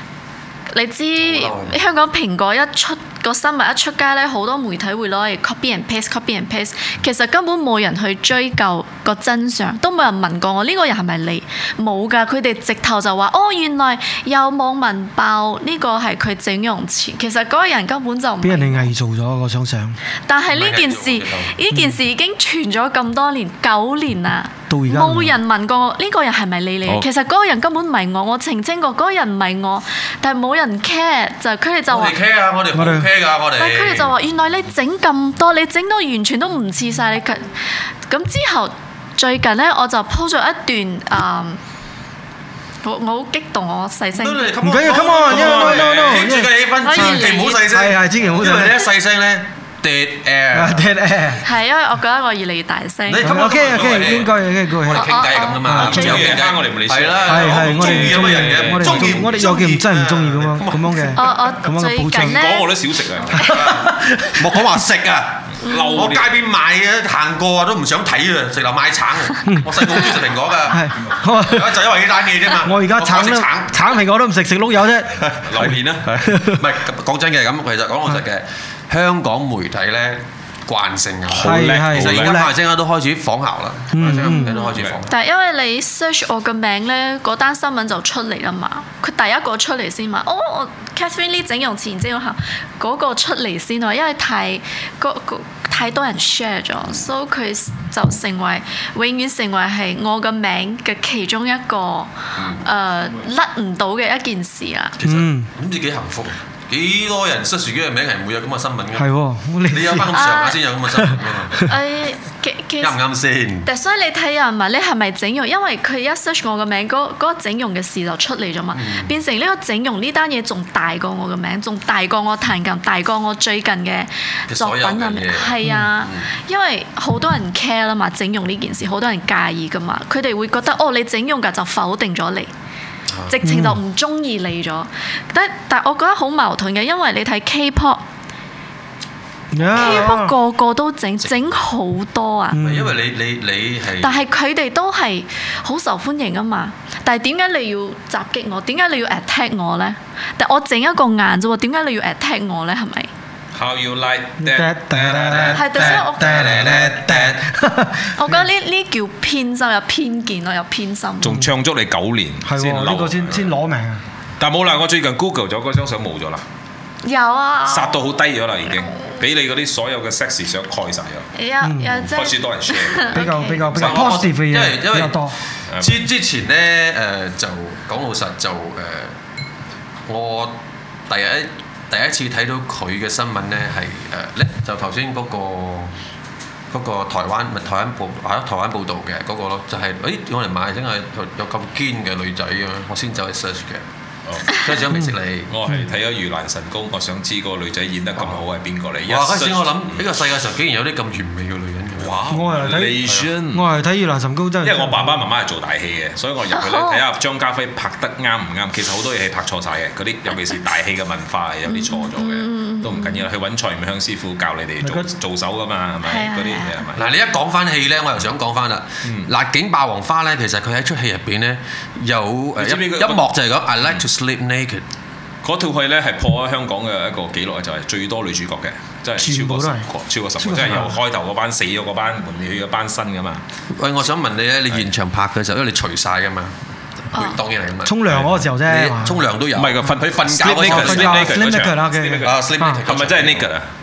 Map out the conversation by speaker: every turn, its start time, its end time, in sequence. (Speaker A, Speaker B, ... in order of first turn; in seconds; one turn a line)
Speaker A: 0.7-18.9
Speaker B: 1.2-1.8
Speaker C: 18.4-20.0
Speaker A: 20.3-32.2
Speaker B: 20.5-21.6
Speaker C: 21.7-22.0
Speaker C: 24.7-25.4
Speaker B: 31.9-34.1
Speaker C: 32.7-33.1
Speaker A: 33.5-37.5
Speaker A: 38.1-41.6
Speaker A: 42.8-44.5
Speaker B: 44.2-51.0
Speaker C: 44.6-48.8
Speaker D: 45.0-46.3
Speaker A: 46.8-47.7
Speaker C: 50.5-51.4
Speaker A: 51.4-53.4
Speaker B: 53.1-61.5
Speaker C: 53.2-55.0
Speaker D: 53.6-54.2
Speaker A: 54.9-56.4
Speaker C: 55.6-56.1
Speaker D: 55.8-59.5
Speaker C: 57.2-62.4
Speaker A: 61.1-62.8
Speaker D: 62.2-63.6
Speaker A: 63.3-63.8
Speaker B: 63.4-73.9
Speaker C: 63.4-64.7
Speaker D: 65.6-66.4
Speaker A: 65.6-66.1
Speaker C: 69.5-70.1
Speaker C: 70.7-71.8
Speaker C: 72.6-76.6
Speaker B: 75.0-85.2
Speaker D: 75.3-76.2
Speaker D: 81.3-82.5
Speaker C: 81.4-82.5
Speaker C: 83.9-84.5
Speaker A: 84.3-105.0
Speaker B: 102.4-102.7
Speaker B: 105.0-111.8
Speaker C: 105.0-105.5
Speaker C: 109.0-110.1
Speaker A: 110.1-110.6
Speaker C: 111.0-111.7
Speaker A: 111.6-113.0
Speaker B: 112.8-113.7
Speaker A: 113.7-132.5
Speaker B: 118.7-119.1
Speaker B: 124.5-126.3
Speaker C: 125.6-125.9
Speaker B: 133.1-133.4
Speaker A: 133.3-138.0
Speaker C: 133.4-133.8
Speaker C: 139.5-140.3
Speaker B: 139.6-140.2
Speaker A: 139.7-142.6
Speaker C: 142.5-142.9
Speaker B: 142.6-144.2
Speaker A: 144.0-153.1
Speaker D: 153.5-156.1
Speaker C: 154.4-158.5
Speaker A: 155.5-156.7
Speaker B: 155.7-157.4
Speaker A: 158.2-161.4
Speaker D: 161.2-163.6
Speaker C: 162.4-164.0
Speaker D: 164.4-166.4
Speaker A: 167.0-168.0
Speaker D: 167.7-171.3
Speaker A: 168.7-169.2
Speaker A: 171.3-173.8
Speaker C: 171.6-171.9
Speaker D: 172.1-174.3
Speaker C: 173.1-175.4
Speaker B: 173.8-179.2
Speaker D: 175.7-176.0
Speaker B: 180.1-186.0
Speaker B: 186.7-193.8
Speaker D: 194.3-194.7
Speaker B: 194.5-195.5
Speaker D: 195.5-200.0
Speaker B: 199.1-203.3
Speaker D: 202.0-203.8
Speaker C: 202.3-205.2
Speaker D: 204.6-217.0
Speaker A: 206.5-207.0
Speaker A: 211.7-213.3
Speaker C: 214.8-215.1
Speaker A: 216.1-216.9
Speaker B: 217.0-224.9
Speaker D: 219.0-219.3
Speaker D: 222.6-223.3
Speaker D: 225.4-233.4
Speaker C: 229.2-229.9
Speaker C: 230.4-230.9
Speaker B: 233.7-236.6
Speaker B: 237.1-241.5
Speaker C: 237.8-239.2
Speaker D: 238.1-238.6
Speaker D: 239.6-243.7
Speaker C: 240.5-242.8
Speaker B: 242.2-243.5